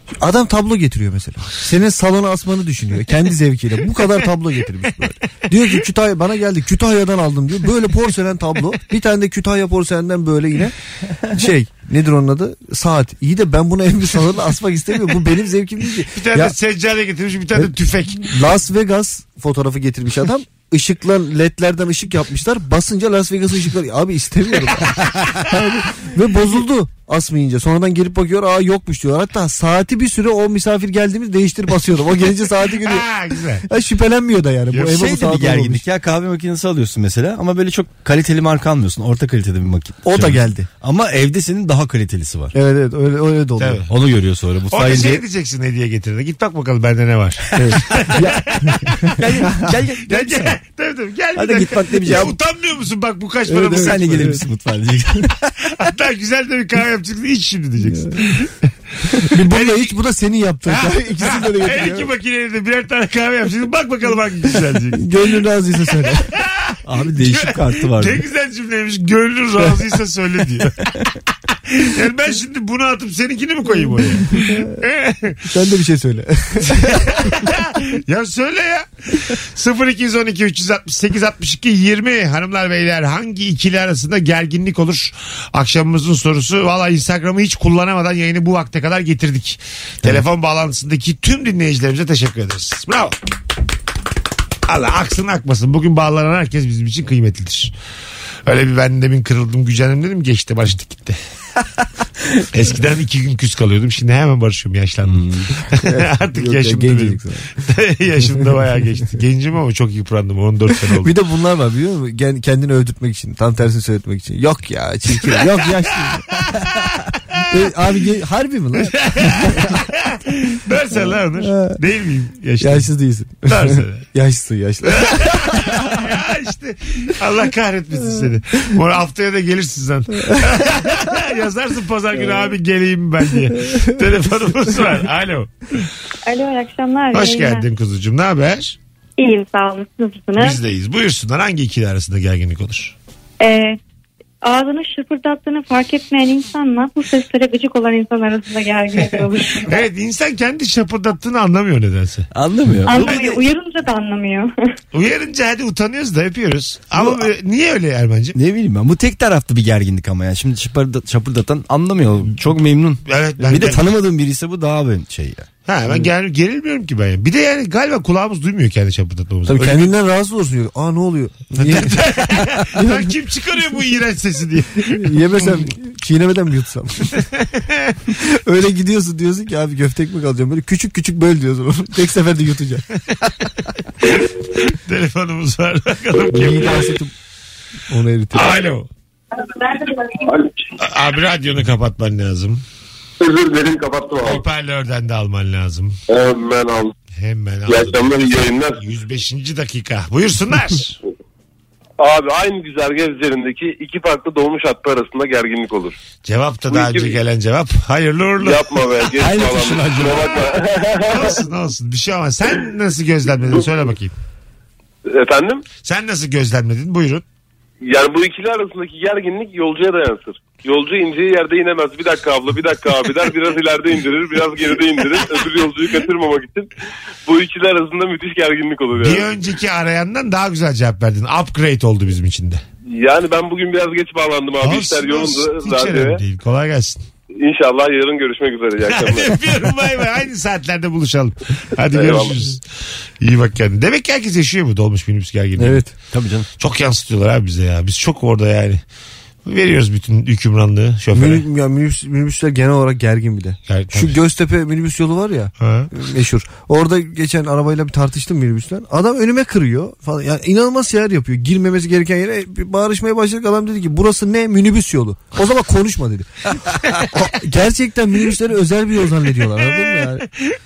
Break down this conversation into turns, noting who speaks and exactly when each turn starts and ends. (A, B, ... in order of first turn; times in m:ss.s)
0:00.2-0:10.7 A
0:11.3-0:16.5 A
0:16.1-0:18.3 B
0:18.2-0:33.0 A
0:32.8-0:33.6 B
0:33.6-0:35.8 A
0:34.9-0:42.5 C
0:40.0-0:40.7 A
0:42.5-0:43.8 A
0:43.6-0:43.9 B
0:43.9-0:45.2 C
0:44.7-0:48.7 B
0:47.6-0:48.4 A
0:49.2-0:50.6 C
0:50.1-0:54.4 B
0:51.3-0:52.3 C
0:53.5-0:54.4 A
0:53.5-0:55.4 C
0:55.8-0:58.5 B
0:59.3-1:02.0 A
0:59.5-0:59.9 B
1:00.7-1:05.1 B
1:04.9-1:06.3 A
1:06.4-1:10.8 B
1:06.9-1:08.2 C
1:11.7-1:15.4 B
1:14.3-1:14.7 A
1:15.4-1:17.3 A
1:16.7-1:33.1 B
1:34.6-1:37.7 B
1:38.4-1:41.2 B
1:42.5-1:45.2 B
1:45.1-1:45.5 C
1:45.8-1:51.1 B
1:45.8-1:47.5 A
1:50.9-1:56.5 A
1:57.5-1:59.8 A
1:58.9-2:02.9 B
2:01.4-2:01.7 A
2:02.6-2:05.8 A
2:03.5-2:04.1 B
2:04.9-2:15.8 B
2:16.2-2:17.6 D
2:17.1-2:18.8 B
2:19.2-2:20.6 D
2:20.4-2:22.9 B
2:23.4-2:23.8 D
2:24.4-2:29.8 D
2:29.0-2:32.3 B
2:32.3-2:33.4 C
2:32.8-2:34.5 D
2:32.9-2:33.3 B
2:34.9-2:38.4 B
2:38.3-2:45.5 C
2:43.1-2:43.8 B
2:45.7-2:49.9 B
2:49.5-2:53.1 A
2:51.6-2:55.7 B
2:54.9-2:57.2 A
2:57.4-2:57.9 B
2:58.2-3:02.8 A
3:04.6-3:07.0 B
3:06.3-3:07.1 A
3:07.9-3:08.6 A
3:08.3-3:08.9 B
3:10.8-3:12.6 B
3:13.3-3:14.4 E
3:14.2-3:16.0 B
3:16.1-3:16.9 E
3:17.2-3:21.0 B
3:17.7-3:18.8 E
3:22.0-3:26.0 E
3:26.2-3:28.7 B
3:26.7-3:27.2 E
3:28.4-3:31.4 E
3:29.2-3:30.4 C
3:31.1-3:34.1 B
3:33.4-3:33.8 E
3:35.0-3:35.6 E
3:35.8-3:37.2 B
3:37.8-3:46.7 E
3:47.2-3:49.3 E
3:49.0-3:52.6 B
3:52.9-3:56.2 E
3:54.6-3:57.0 B
3:57.4-3:59.4 E
3:58.9-4:02.6 B
4:01.9-4:02.4 E
4:03.2-4:05.8 B
4:05.6-4:05.8 A
4:06.1-4:06.5 C
4:06.6-4:08.8 B
4:09.4-4:11.4 B
4:11.1-4:26.3 A
4:13.7-4:14.2 B
4:15.6-4:15.9 B
4:27.0-4:30.2 A